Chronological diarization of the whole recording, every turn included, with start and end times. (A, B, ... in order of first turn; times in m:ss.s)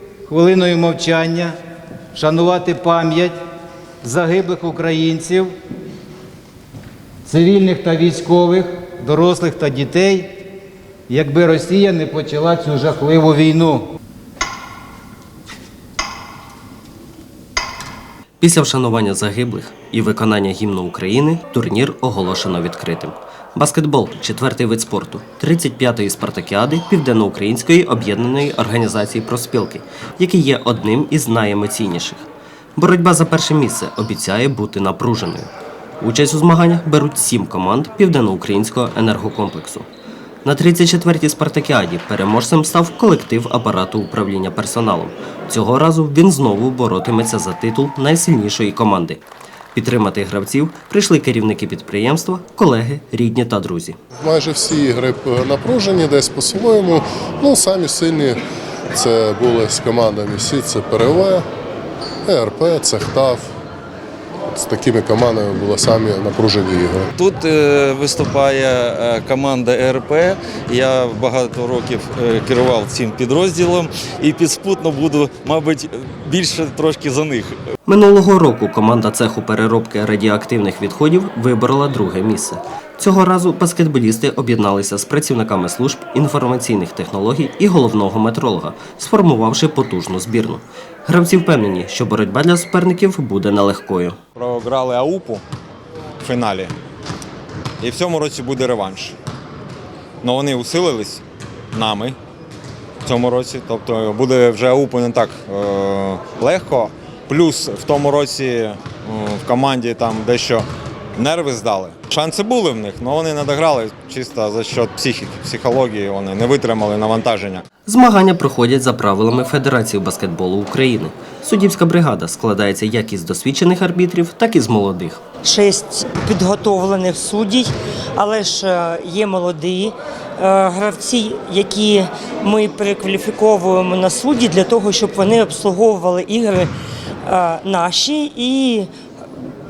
0:00.2-0:01.6 A
0:02.1-0:03.4 A
0:04.0-0:05.5 A
0:07.2-0:10.4 A
0:11.1-0:13.8 A
0:18.4-0:32.2 B
0:32.8-0:35.5 B
0:36.0-0:39.9 B
0:40.4-0:49.2 B
0:49.7-0:54.0 B
0:54.2-0:58.4 C
0:58.9-1:01.4 C
1:02.2-1:03.5 C
1:04.5-1:07.1 C
1:07.2-1:17.6 D
1:17.8-1:34.2 B
1:34.4-1:35.4 E
1:36.2-1:36.7 E
1:37.8-1:39.2 E
1:40.2-1:42.2 E
1:43.0-1:50.6 E
1:51.2-1:57.6 E
1:57.8-2:05.2 B
2:05.4-2:16.7 F
2:17.2-2:18.9 F